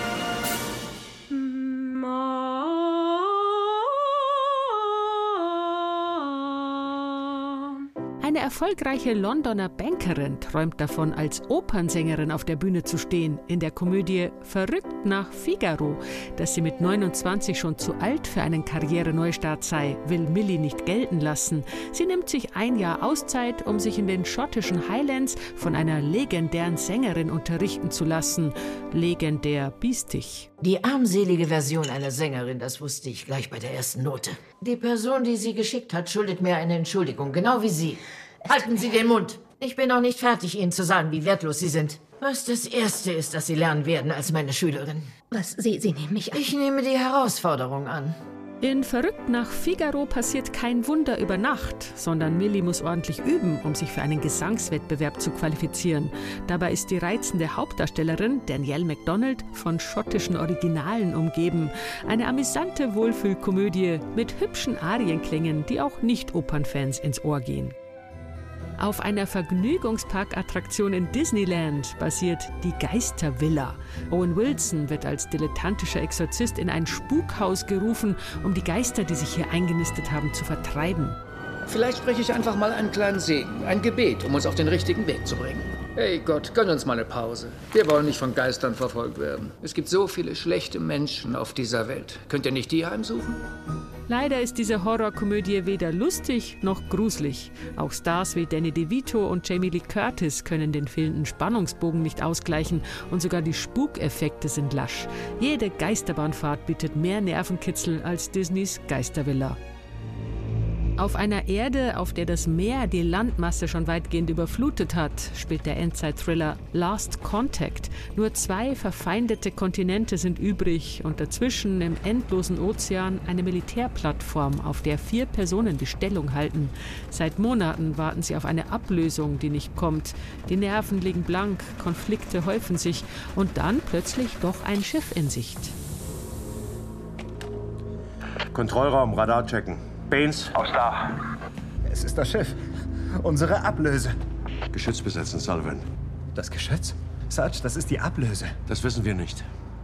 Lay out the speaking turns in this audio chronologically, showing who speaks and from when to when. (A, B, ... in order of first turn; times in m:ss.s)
0:01.6-0:03.3 A
0:08.2-0:30.5 B
0:30.6-0:45.1 C
0:45.3-0:46.4 A
0:46.3-0:48.2 C
0:48.6-1:07.8 B
1:08.8-1:21.2 B
1:21.7-1:33.4 D
1:34.1-1:49.6 B
1:51.0-2:15.8 B
2:18.5-2:21.1 E
2:21.9-2:22.6 F
2:23.2-2:24.1 F
2:24.7-2:25.9 E
2:26.4-2:28.6 F
2:28.7-2:29.4 E